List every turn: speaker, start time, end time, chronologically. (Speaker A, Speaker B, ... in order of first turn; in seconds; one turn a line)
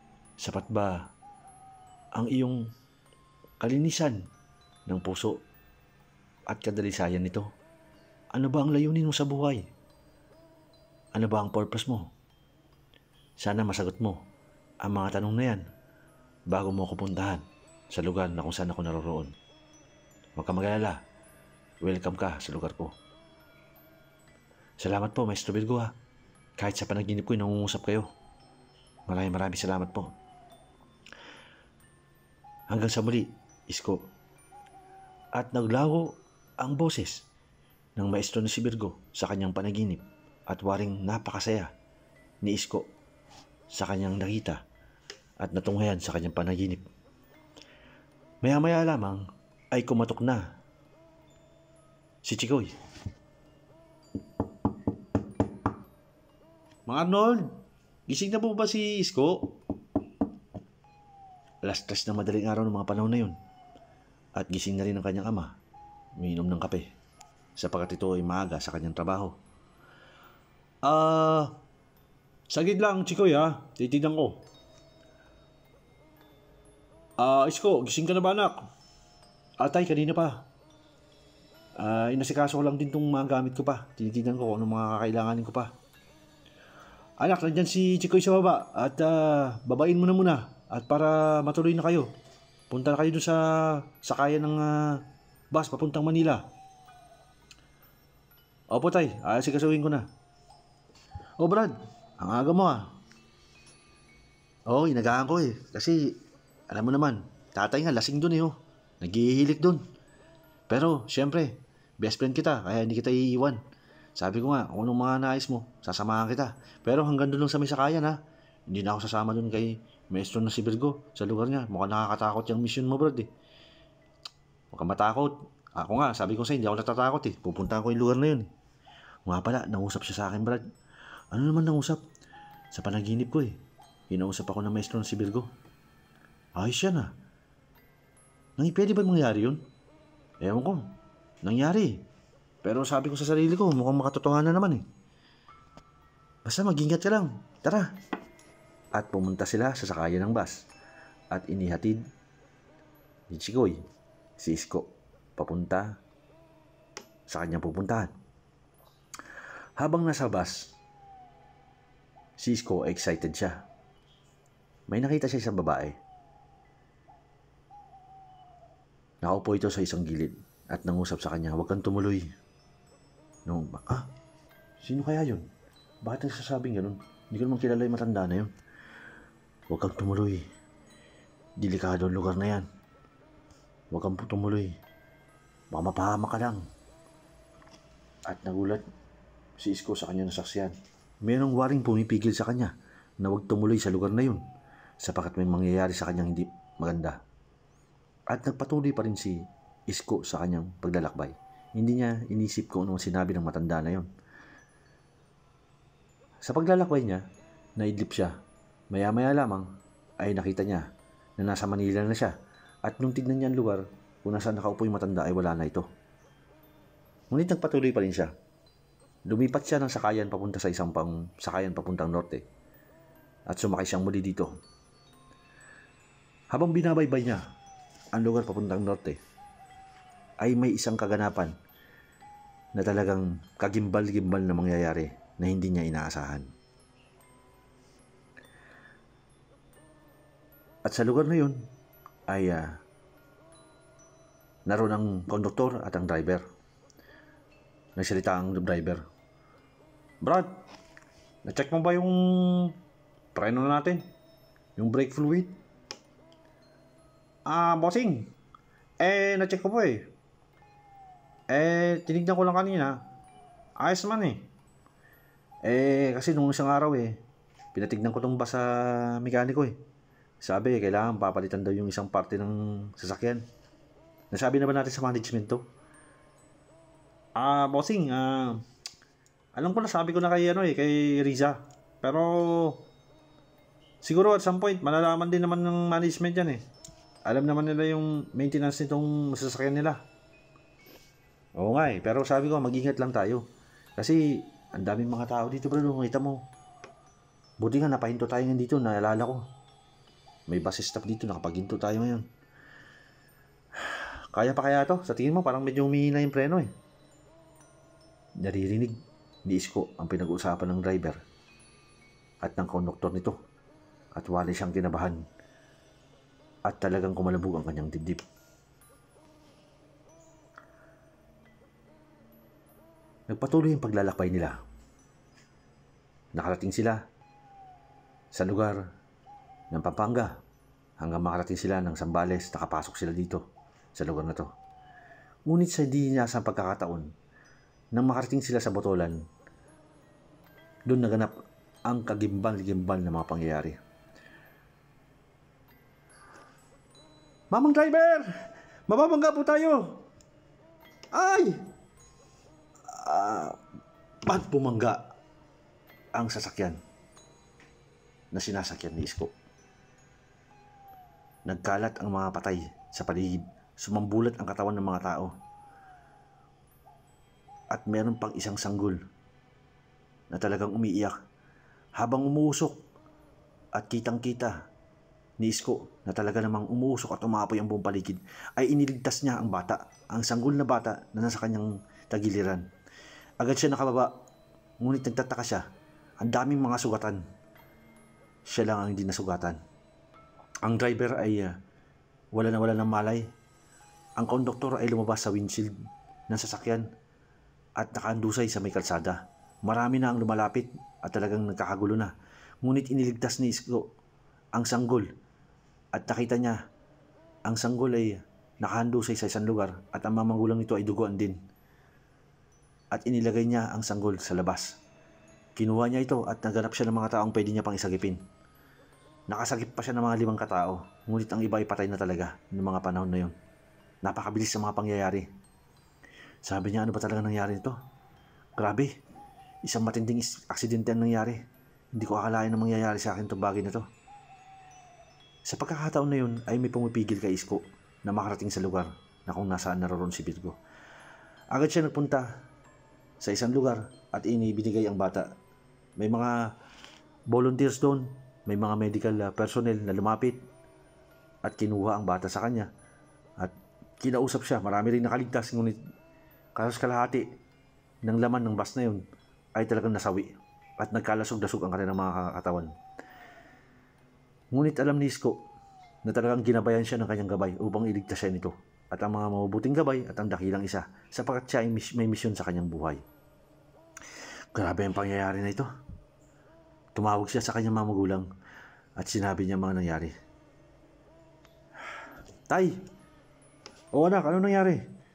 Speaker A: 0.4-1.1
Speaker A: 2.1-2.6
Speaker A: 3.6-4.2
Speaker A: 4.9-5.4
Speaker A: 6.5-7.5
Speaker A: 8.3-9.7
Speaker A: 11.1-12.1
Speaker A: 13.4-14.2
Speaker A: 14.8-15.6
Speaker A: 16.5-19.3
Speaker A: 20.4-21.0
Speaker A: 21.8-22.9
Speaker A: 24.8-25.9
Speaker A: 26.6-28.1
Speaker A: 29.1-30.1
Speaker A: 32.7-34.1
Speaker A: 35.3-37.2
Speaker A: 38.0-41.7
Speaker A: 42.4-42.9
Speaker A: 43.7-44.6
Speaker A: 45.4-46.8
Speaker A: 48.4-50.6
Speaker A: 52.2-52.7
Speaker A: 56.9-57.5
Speaker A: 58.1-59.5
Speaker A: 61.6-63.3
Speaker A: 64.3-65.5
Speaker A: 66.2-66.8
Speaker A: 67.6-69.3
Speaker A: 70.8-71.6
Speaker A: 72.5-74.4
Speaker A: 77.2-78.6
Speaker A: 79.6-80.4
Speaker A: 81.8-85.7
Speaker A: 87.2-92.1
Speaker A: 92.7-95.0
Speaker A: 95.5-96.4
Speaker A: 98.7-100.0
Speaker A: 101.4-102.9
Speaker A: 104.7-106.2
Speaker A: 106.7-109.8
Speaker A: 110.7-113.6
Speaker A: 114.2-118.2
Speaker A: 118.7-123.3
Speaker A: 124.7-128.5
Speaker A: 129.2-130.6
Speaker A: 131.3-132.0
Speaker A: 132.7-133.6
Speaker A: 134.1-135.5
Speaker A: 136.6-137.1
Speaker A: 138.6-139.6
Speaker A: 140.4-140.8
Speaker A: 141.4-142.0
Speaker A: 142.6-144.8
Speaker A: 146.4-147.9
Speaker A: 148.9-150.7
Speaker A: 151.3-152.0
Speaker A: 153.3-153.8
Speaker A: 154.4-155.9
Speaker A: 157.3-158.1
Speaker A: 159.8-160.7
Speaker A: 162.4-163.6
Speaker A: 164.9-166.0
Speaker A: 169.2-172.3
Speaker A: 173.4-174.1
Speaker A: 174.8-175.5
Speaker A: 176.0-178.5
Speaker A: 179.7-180.4
Speaker A: 181.6-182.7
Speaker A: 183.9-184.7
Speaker A: 185.7-186.6
Speaker A: 188.3-188.8
Speaker A: 189.6-194.4
Speaker A: 195.0-197.2
Speaker A: 198.3-204.1
Speaker A: 206.4-207.2
Speaker A: 207.8-208.3
Speaker A: 208.9-210.8
Speaker A: 211.4-212.3
Speaker A: 212.8-215.9
Speaker A: 217.3-218.3
Speaker A: 219.3-222.4
Speaker A: 223.5-224.5
Speaker A: 226.5-227.4
Speaker A: 228.1-229.2
Speaker A: 230.4-231.5
Speaker A: 232.7-236.4
Speaker A: 240.9-241.6
Speaker A: 242.3-242.8
Speaker A: 244.7-246.4
Speaker A: 247.9-249.0
Speaker A: 250.2-250.5
Speaker A: 251.4-252.7
Speaker A: 253.3-254.0
Speaker A: 254.8-255.6
Speaker A: 257.5-258.3
Speaker A: 259.0-260.1
Speaker A: 261.5-262.9
Speaker A: 263.8-264.5
Speaker A: 265.6-267.2
Speaker A: 267.7-269.7
Speaker A: 270.4-273.4
Speaker A: 274.3-275.6
Speaker A: 277.4-278.6
Speaker A: 279.6-282.8
Speaker A: 284.0-286.6
Speaker A: 287.2-290.0
Speaker A: 291.6-293.4
Speaker A: 294.0-296.4
Speaker A: 297.6-299.4
Speaker A: 300.5-302.2
Speaker A: 303.8-306.7
Speaker A: 308.4-308.9
Speaker A: 309.4-311.2
Speaker A: 312.4-313.4
Speaker A: 314.1-315.2
Speaker A: 316.7-318.2
Speaker A: 323.3-324.6
Speaker A: 326.3-327.0
Speaker A: 328.3-328.8
Speaker A: 329.7-330.3
Speaker A: 331.0-333.4
Speaker A: 333.9-334.5
Speaker A: 335.5-337.1
Speaker A: 337.9-339.1
Speaker A: 340.9-341.3
Speaker A: 341.9-343.8
Speaker A: 347.5-348.3
Speaker A: 348.9-350.0
Speaker A: 351.1-351.6
Speaker A: 352.9-353.6
Speaker A: 354.2-355.0
Speaker A: 356.1-356.8
Speaker A: 358.3-359.3
Speaker A: 361.4-365.3
Speaker A: 367.7-369.0
Speaker A: 370.3-371.1
Speaker A: 372.0-372.8
Speaker A: 373.7-374.5
Speaker A: 375.4-382.6
Speaker A: 383.4-384.1
Speaker A: 384.8-385.6
Speaker A: 386.2-387.2
Speaker A: 388.5-389.6
Speaker A: 390.6-391.5
Speaker A: 392.3-393.2
Speaker A: 394.2-395.7
Speaker A: 396.3-396.8
Speaker A: 397.8-402.1
Speaker A: 402.6-403.8
Speaker A: 404.6-405.1
Speaker A: 405.9-406.6
Speaker A: 407.5-411.4
Speaker A: 412.9-414.8
Speaker A: 415.6-418.2
Speaker A: 419.3-423.3
Speaker A: 424.0-425.2
Speaker A: 426.4-427.7
Speaker A: 428.6-428.9
Speaker A: 429.6-431.4
Speaker A: 431.9-433.8
Speaker A: 435.5-440.6
Speaker A: 441.5-442.3
Speaker A: 443.2-445.3
Speaker A: 446.0-446.5
Speaker A: 447.3-450.4
Speaker A: 451.4-452.7
Speaker A: 453.4-455.8
Speaker A: 456.6-457.2
Speaker A: 458.0-459.0
Speaker A: 459.6-462.7
Speaker A: 464.5-465.4
Speaker A: 466.0-473.0
Speaker A: 474.5-475.6
Speaker A: 476.9-478.3
Speaker A: 479.0-480.1
Speaker A: 482.5-482.8
Speaker A: 483.9-484.8